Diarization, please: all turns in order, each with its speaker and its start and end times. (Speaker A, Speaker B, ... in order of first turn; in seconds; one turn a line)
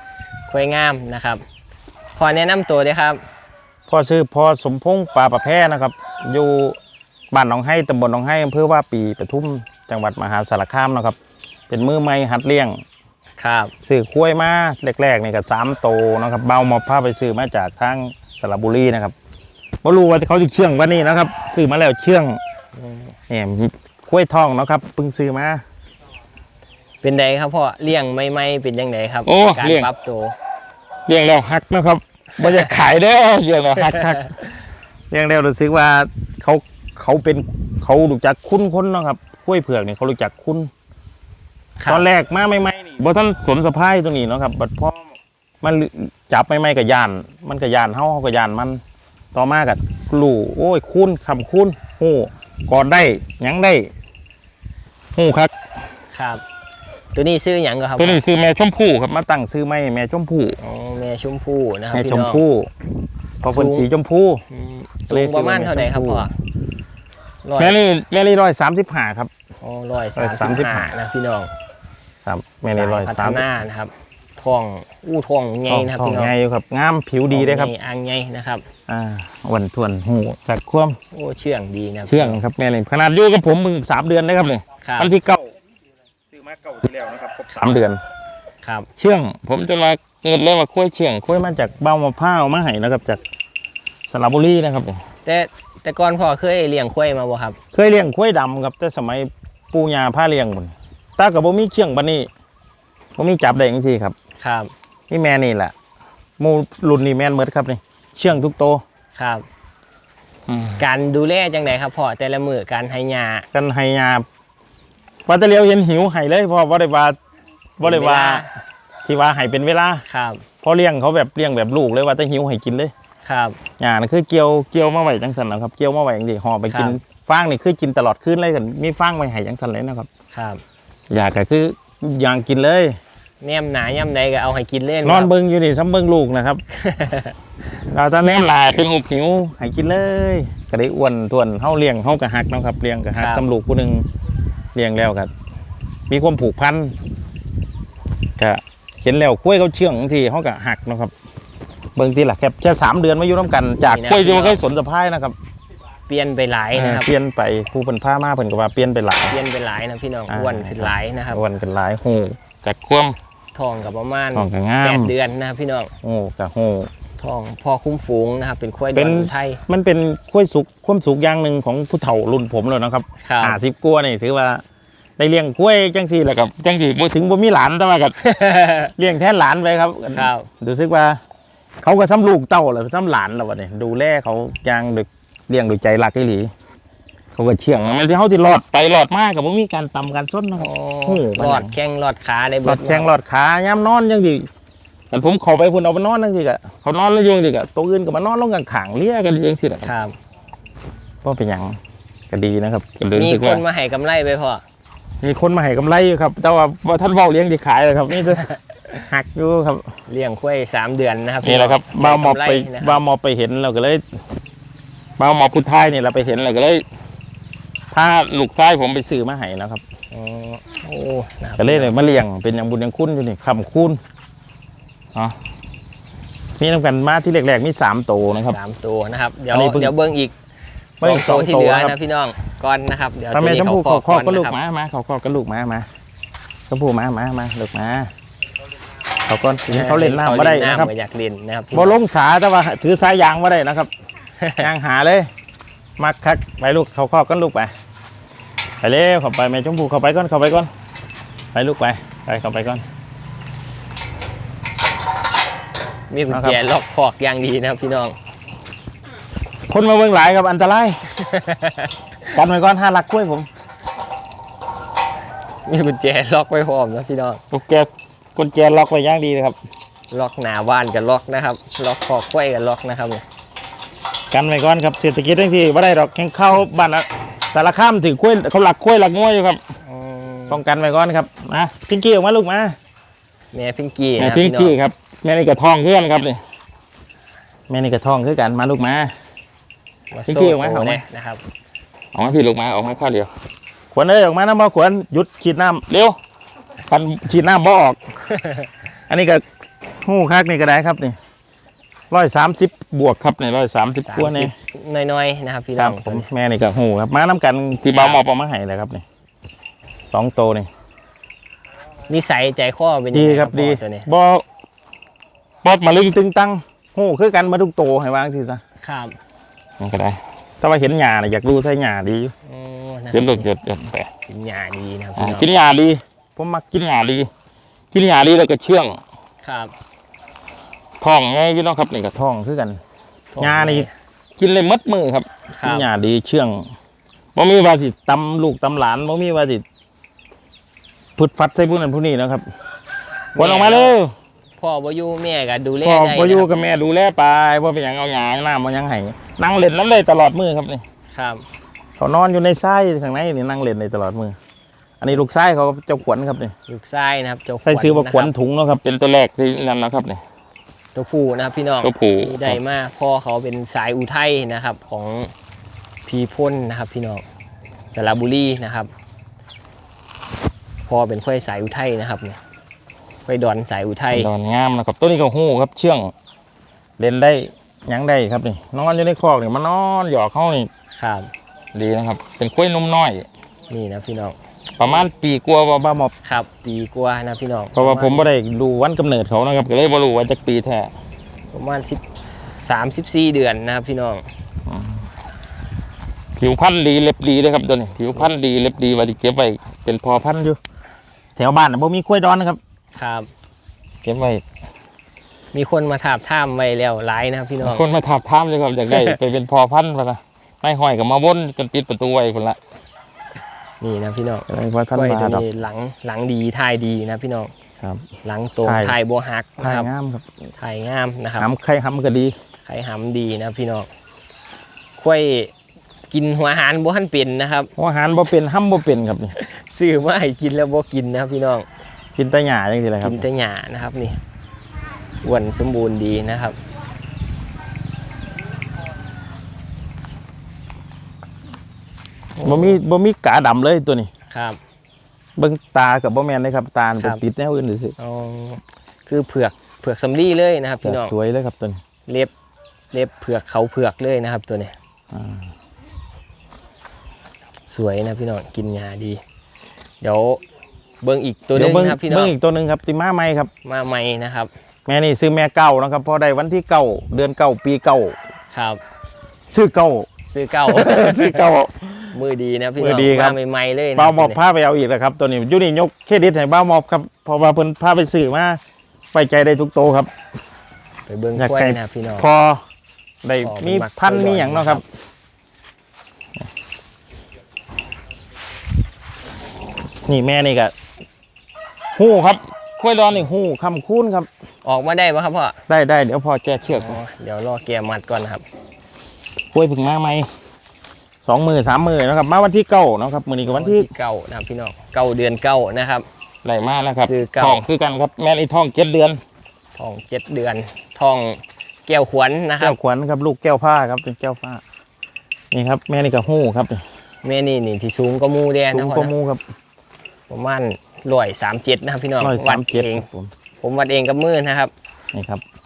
Speaker A: 0.5-1.4
Speaker A: 2.1-3.2
Speaker B: 3.9-6.8
Speaker B: 7.3-11.2
Speaker B: 11.7-12.8
Speaker A: 13.4-13.7
Speaker B: 13.8-19.1
Speaker B: 19.8-22.4
Speaker A: 22.8-23.1
Speaker B: 23.3-25.6
Speaker A: 27.0-30.3
Speaker B: 29.2-29.9
Speaker B: 31.1-34.3
Speaker A: 32.4-32.8
Speaker A: 33.8-34.3
Speaker B: 35.1-40.7
Speaker A: 41.8-42.1
Speaker B: 41.9-45.0
Speaker B: 45.6-48.8
Speaker B: 49.3-53.9
Speaker B: 55.1-55.5
Speaker A: 56.1-56.4
Speaker A: 57.1-58.2
Speaker B: 58.0-60.6
Speaker A: 60.6-62.4
Speaker B: 61.9-62.7
Speaker B: 63.4-64.4
Speaker A: 63.5-63.9
Speaker A: 64.5-66.3
Speaker B: 65.1-66.3
Speaker A: 67.4-67.8
Speaker B: 67.6-69.3
Speaker A: 69.6-71.5
Speaker B: 70.2-70.9
Speaker B: 72.2-73.4
Speaker A: 72.7-76.3
Speaker B: 75.7-77.7
Speaker A: 77.3-78.6
Speaker B: 78.9-81.0
Speaker A: 81.1-82.4
Speaker B: 82.1-85.5
Speaker A: 84.8-85.1
Speaker B: 86.3-88.0
Speaker A: 88.6-88.9
Speaker B: 89.0-93.2
Speaker B: 94.0-95.0
Speaker A: 95.2-97.6
Speaker B: 97.7-102.3
Speaker B: 103.2-104.1
Speaker A: 104.4-104.7
Speaker B: 105.1-105.7
Speaker B: 106.4-108.8
Speaker A: 109.2-109.4
Speaker B: 110.5-110.8
Speaker A: 110.8-113.5
Speaker B: 113.5-114.2
Speaker B: 115.2-117.2
Speaker B: 117.8-118.4
Speaker A: 117.8-118.5
Speaker B: 119.0-120.0
Speaker A: 120.1-120.4
Speaker B: 120.6-122.9
Speaker A: 123.2-123.6
Speaker B: 123.8-130.1
Speaker A: 126.7-127.0
Speaker A: 130.3-130.6
Speaker B: 131.1-132.9
Speaker A: 133.4-135.3
Speaker B: 135.0-136.6
Speaker A: 136.8-137.3
Speaker B: 137.8-144.0
Speaker A: 143.1-143.4
Speaker B: 144.7-145.3
Speaker B: 146.1-146.9
Speaker B: 148.4-151.1
Speaker B: 151.9-155.3
Speaker A: 153.8-154.6
Speaker A: 156.1-157.1
Speaker B: 156.7-159.4
Speaker A: 159.3-161.4
Speaker B: 160.3-163.2
Speaker A: 163.5-165.9
Speaker B: 164.3-165.1
Speaker B: 166.0-166.9
Speaker A: 167.2-169.6
Speaker B: 168.9-174.6
Speaker A: 173.2-173.6
Speaker B: 175.2-178.2
Speaker A: 178.2-178.9
Speaker B: 179.0-181.2
Speaker A: 180.1-180.5
Speaker B: 181.8-186.5
Speaker B: 187.3-191.7
Speaker A: 190.6-193.1
Speaker B: 192.6-194.5
Speaker B: 195.1-199.9
Speaker A: 199.8-200.1
Speaker B: 201.2-201.8
Speaker B: 202.3-203.6
Speaker A: 203.1-204.6
Speaker B: 205.2-208.5
Speaker B: 209.1-209.9
Speaker A: 210.1-213.0
Speaker B: 211.4-214.0
Speaker B: 215.2-216.8
Speaker B: 217.9-219.8
Speaker A: 220.1-221.9
Speaker B: 221.6-224.0
Speaker B: 226.6-228.6
Speaker A: 228.4-230.3
Speaker B: 229.5-229.9
Speaker A: 231.0-234.6
Speaker B: 231.0-231.9
Speaker B: 233.3-235.9
Speaker B: 236.7-238.1
Speaker B: 239.3-240.9
Speaker A: 239.7-241.9
Speaker B: 241.7-243.9
Speaker A: 244.4-244.7
Speaker B: 244.6-245.3
Speaker B: 246.0-247.7
Speaker B: 248.8-250.7
Speaker B: 251.5-252.8
Speaker A: 256.1-258.1
Speaker B: 256.3-256.6
Speaker B: 259.7-261.0
Speaker A: 261.1-261.9
Speaker B: 262.3-263.5
Speaker A: 265.6-267.4
Speaker B: 267.5-269.6
Speaker A: 270.1-273.2
Speaker B: 274.3-279.6
Speaker A: 279.9-280.6
Speaker B: 280.5-282.8
Speaker A: 283.5-284.8
Speaker B: 284.2-286.4
Speaker B: 287.7-289.1
Speaker A: 290.1-291.4
Speaker B: 290.3-291.0
Speaker B: 292.1-293.3
Speaker B: 293.9-296.2
Speaker B: 296.9-298.0
Speaker A: 298.3-298.6
Speaker B: 299.1-299.4
Speaker B: 300.0-301.1
Speaker B: 302.1-304.5
Speaker A: 304.1-306.3
Speaker B: 305.8-309.0
Speaker A: 307.9-308.2
Speaker B: 310.1-310.7
Speaker A: 312.1-314.1
Speaker B: 313.1-314.4
Speaker B: 315.6-318.6
Speaker A: 318.8-319.2
Speaker B: 319.8-322.3
Speaker A: 322.4-323.5
Speaker B: 323.1-324.1
Speaker A: 324.3-325.5
Speaker B: 325.2-327.3
Speaker B: 327.9-329.0
Speaker A: 329.4-329.7
Speaker B: 331.0-332.8
Speaker A: 333.3-333.9
Speaker B: 333.4-333.9
Speaker B: 334.4-336.7
Speaker A: 335.5-335.9
Speaker B: 337.3-339.6
Speaker B: 341.2-342.4
Speaker A: 343.3-344.0
Speaker B: 343.4-344.1
Speaker A: 344.6-346.5
Speaker B: 345.8-350.8
Speaker A: 351.1-351.4
Speaker B: 352.0-354.4
Speaker B: 355.0-356.5
Speaker A: 356.7-358.3
Speaker B: 357.6-360.2
Speaker A: 360.9-365.3
Speaker B: 361.8-362.6
Speaker A: 366.1-367.2
Speaker A: 367.9-368.9
Speaker A: 370.9-372.4
Speaker A: 373.2-374.3
Speaker B: 374.1-376.1
Speaker B: 377.0-380.7
Speaker A: 380.9-381.3
Speaker B: 381.7-383.3
Speaker A: 383.7-384.4
Speaker B: 384.8-386.1
Speaker A: 386.2-388.3
Speaker B: 387.8-390.9
Speaker A: 391.5-394.2
Speaker B: 394.7-395.0
Speaker B: 396.4-400.6
Speaker B: 401.4-402.6
Speaker A: 402.9-403.3
Speaker B: 404.0-404.4
Speaker A: 405.5-407.8
Speaker B: 407.6-412.6
Speaker A: 413.8-417.5
Speaker B: 414.5-415.5
Speaker A: 418.2-419.9
Speaker B: 418.6-419.0
Speaker B: 419.6-420.3
Speaker A: 420.6-421.5
Speaker B: 421.4-422.3
Speaker A: 422.6-423.9
Speaker A: 425.0-425.5
Speaker A: 426.1-427.7
Speaker B: 427.8-429.3
Speaker A: 429.4-431.7
Speaker B: 432.1-433.2
Speaker A: 433.0-434.2
Speaker A: 435.2-436.6
Speaker A: 442.4-442.8
Speaker B: 442.4-444.1
Speaker A: 444.3-444.6
Speaker B: 445.4-447.9
Speaker A: 448.0-451.1
Speaker B: 450.8-451.8
Speaker A: 452.1-452.3
Speaker A: 452.9-454.7
Speaker B: 455.1-455.5
Speaker A: 457.7-459.2
Speaker A: 460.0-460.4
Speaker A: 461.0-462.3
Speaker B: 461.5-463.5
Speaker A: 463.6-464.5
Speaker B: 464.9-468.2
Speaker A: 468.5-468.8
Speaker B: 469.5-470.1
Speaker A: 470.2-471.4
Speaker B: 470.6-472.1
Speaker A: 472.1-474.4
Speaker B: 472.8-473.4
Speaker B: 473.9-478.6
Speaker B: 479.1-480.1
Speaker A: 481.1-482.3
Speaker B: 481.4-482.6
Speaker B: 483.2-484.8
Speaker A: 483.4-484.8
Speaker B: 490.1-490.7
Speaker B: 491.9-494.3
Speaker A: 494.6-495.6
Speaker B: 495.7-497.0
Speaker A: 496.6-498.4
Speaker B: 499.5-500.3
Speaker B: 501.2-503.9
Speaker A: 503.4-506.1
Speaker B: 506.4-509.2
Speaker A: 507.0-507.6
Speaker A: 509.8-512.8
Speaker B: 512.6-514.6
Speaker B: 515.5-516.8
Speaker A: 517.2-519.1
Speaker B: 518.7-519.4
Speaker A: 520.3-523.0
Speaker B: 522.2-523.3
Speaker A: 523.6-524.7
Speaker B: 525.1-525.4